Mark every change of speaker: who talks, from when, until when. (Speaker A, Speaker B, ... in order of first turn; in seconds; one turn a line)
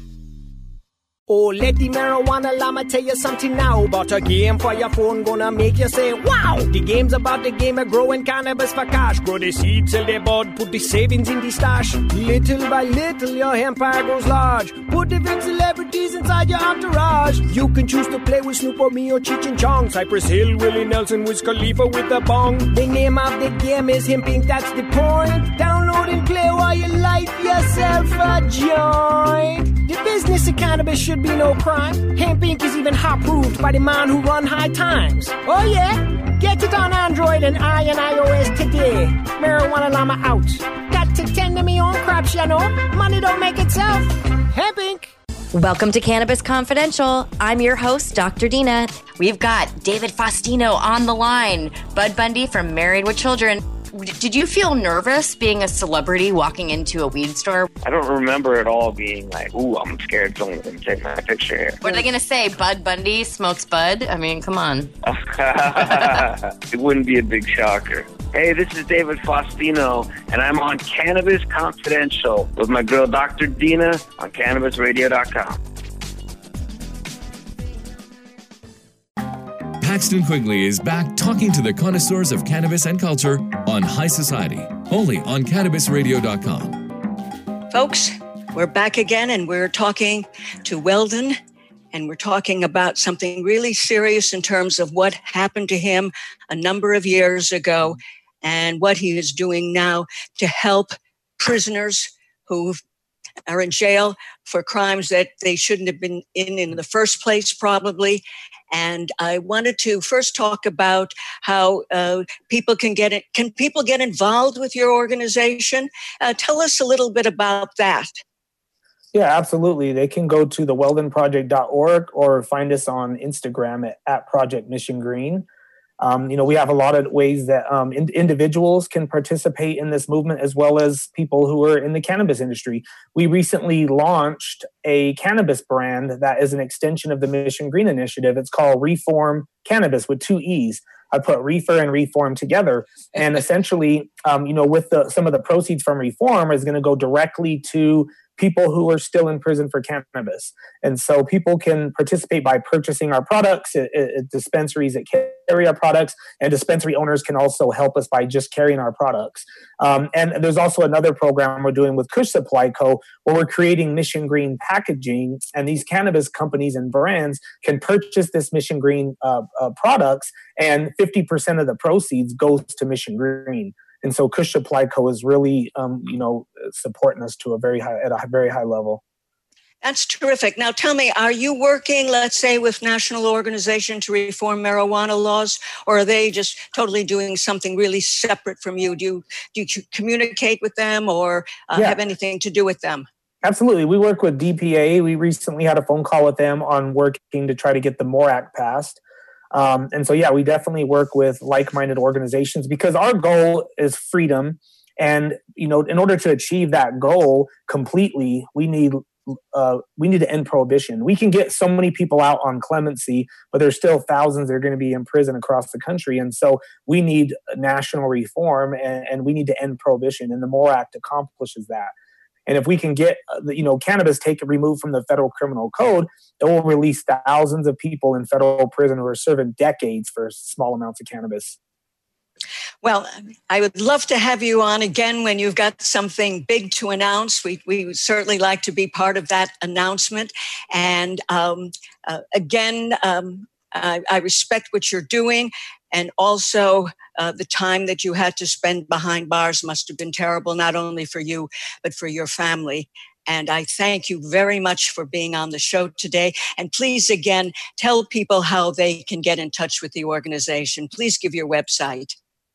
Speaker A: 1.3-45.1
Speaker B: 45.5-57.7
Speaker C: 57.8-62.0
Speaker B: 61.8-64.9
Speaker C: 65.0-75.6
Speaker D: 79.8-86.8
Speaker E: 87.7-91.3
Speaker E: 91.9-102.8
Speaker E: 103.5-118.2
Speaker F: 119.1-125.5
Speaker F: 126.0-179.0
Speaker E: 179.8-193.1
Speaker F: 193.4-199.0
Speaker F: 199.5-221.9
Speaker F: 222.5-231.6
Speaker E: 232.8-262.1